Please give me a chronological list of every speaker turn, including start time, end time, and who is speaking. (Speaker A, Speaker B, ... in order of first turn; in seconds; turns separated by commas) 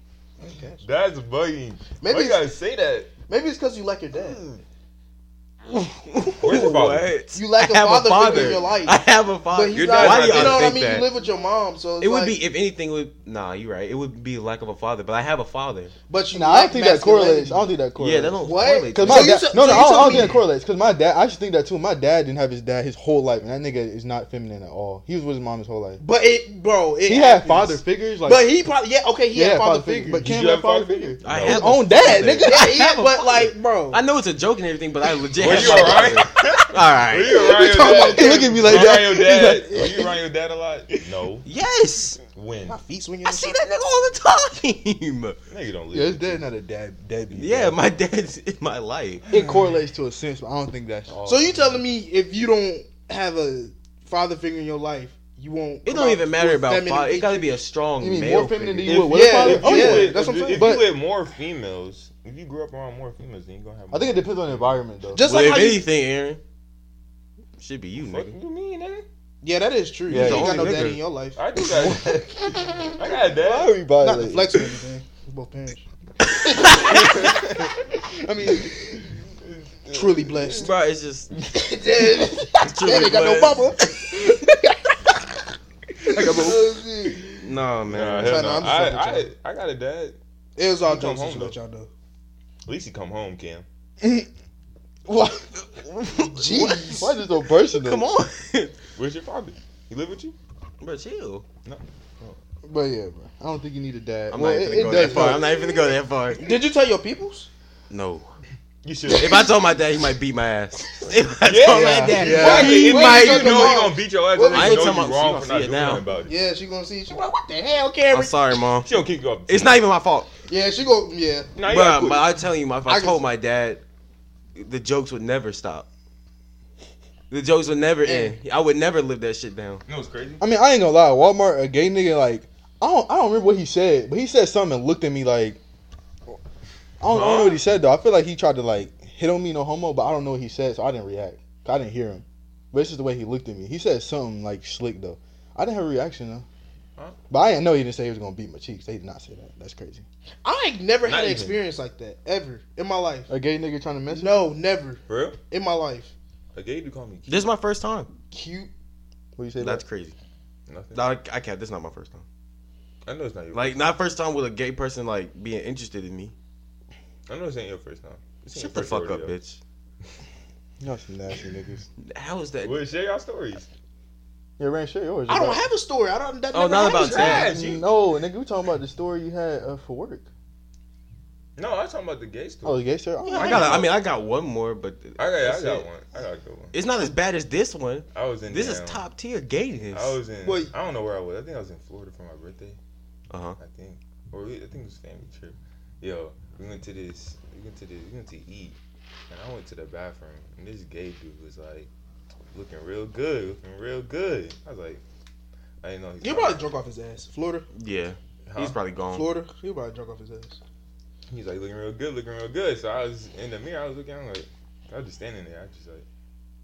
Speaker A: 0.4-0.8, Speaker B: 0.8-3.1, Speaker A: 2.0-2.4, Speaker A: 3.3-4.4, Speaker B: 4.1-4.6, Speaker C: 5.7-11.1, Speaker B: 6.4-7.1, Speaker A: 7.3-12.4, Speaker B: 9.7-10.8, Speaker C: 12.0-15.9, Speaker A: 16.1-17.7, Speaker D: 16.3-26.0, Speaker C: 18.0-19.4, Speaker A: 18.4-20.4, Speaker A: 26.0-30.4, Speaker D: 27.1-28.5, Speaker D: 29.3-32.7, Speaker B: 30.2-31.8, Speaker C: 31.2-37.5, Speaker A: 31.9-34.0, Speaker B: 35.4-41.5, Speaker D: 35.4-36.1, Speaker A: 35.5-36.0, Speaker A: 37.5-39.1, Speaker D: 37.9-40.1, Speaker C: 41.4-42.2, Speaker B: 42.3-42.8, Speaker A: 42.7-43.5, Speaker C: 43.2-45.4, Speaker B: 45.5-46.4, Speaker D: 45.9-47.8, Speaker C: 47.3-49.2, Speaker D: 49.3-51.7, Speaker B: 49.3-49.6, Speaker A: 51.2-57.6, Speaker C: 55.8-59.0, Speaker D: 58.0-60.9, Speaker B: 58.8-64.8, Speaker A: 59.1-60.8, Speaker D: 63.9-65.2, Speaker A: 65.1-65.8, Speaker C: 65.2-66.4, Speaker C: 67.6-68.3, Speaker B: 68.0-69.0, Speaker A: 69.4-71.4, Speaker D: 70.1-71.0, Speaker C: 70.1-71.0, Speaker B: 71.3-73.8, Speaker D: 71.7-74.6, Speaker A: 74.0-75.8, Speaker C: 76.6-76.9, Speaker A: 76.6-77.1, Speaker B: 76.9-77.7, Speaker D: 78.2-78.9, Speaker B: 79.4-80.7, Speaker A: 79.9-80.7, Speaker C: 80.6-81.3, Speaker A: 81.4-84.8, Speaker C: 82.6-83.7, Speaker A: 86.1-87.4, Speaker D: 86.1-87.2, Speaker C: 87.4-88.6, Speaker B: 87.9-90.2, Speaker A: 88.2-89.3, Speaker A: 90.6-91.9, Speaker B: 90.8-91.5, Speaker B: 92.7-93.6, Speaker D: 94.0-94.3, Speaker D: 95.1-98.0, Speaker C: 96.2-97.0, Speaker A: 96.3-97.1, Speaker C: 97.7-98.7, Speaker B: 99.0-100.3, Speaker C: 100.8-101.4, Speaker B: 101.6-102.3, Speaker D: 102.6-105.5, Speaker C: 104.3-106.4, Speaker A: 104.7-105.7, Speaker A: 106.4-107.5, Speaker C: 107.9-108.3, Speaker B: 108.8-109.5, Speaker C: 109.1-113.8, Speaker B: 111.4-116.3, Speaker A: 111.9-115.0, Speaker D: 112.0-112.8, Speaker C: 114.5-116.0, Speaker A: 116.2-118.3, Speaker C: 118.1-118.9, Speaker B: 118.8-119.8, Speaker C: 119.5-120.3, Speaker A: 120.5-121.5, Speaker B: 121.5-122.3, Speaker C: 121.6-123.8, Speaker A: 122.8-123.2, Speaker C: 124.5-125.9, Speaker C: 127.3-129.8, Speaker A: 128.0-128.3, Speaker B: 129.8-130.4, Speaker D: 130.4-135.6, Speaker D: 137.0-146.4, Speaker B: 137.1-137.6, Speaker D: 147.3-150.0, Speaker A: 150.4-153.3, Speaker B: 151.0-151.6, Speaker D: 153.3-154.4, Speaker A: 154.1-156.1, Speaker B: 155.1-155.4, Speaker B: 156.5-157.4, Speaker C: 157.3-158.1, Speaker A: 158.3-158.7, Speaker D: 159.3-159.8, Speaker C: 159.6-160.2, Speaker B: 160.7-161.1, Speaker C: 160.9-162.2, Speaker B: 163.1-163.8, Speaker C: 163.5-166.3, Speaker B: 167.3-169.3, Speaker C: 168.5-169.6, Speaker D: 170.8-171.8, Speaker C: 172.0-172.8, Speaker B: 172.6-173.7, Speaker D: 174.6-175.6, Speaker A: 175.3-177.5, Speaker C: 176.5-177.5, Speaker B: 176.9-177.9, Speaker D: 177.2-180.3, Speaker B: 181.6-182.8, Speaker D: 182.6-183.9, Speaker C: 183.3-185.9, Speaker A: 183.4-183.8, Speaker B: 183.4-183.8, Speaker B: 185.2-186.7, Speaker C: 186.7-190.2, Speaker B: 188.1-189.0, Speaker B: 189.9-192.8, Speaker A: 190.4-190.7, Speaker C: 193.3-193.6, Speaker B: 193.6-198.8, Speaker B: 199.3-201.9, Speaker B: 202.5-205.0, Speaker B: 205.8-206.7, Speaker A: 206.2-207.7, Speaker C: 207.7-209.3, Speaker B: 208.5-208.8, Speaker A: 209.1-210.6, Speaker B: 211.3-216.0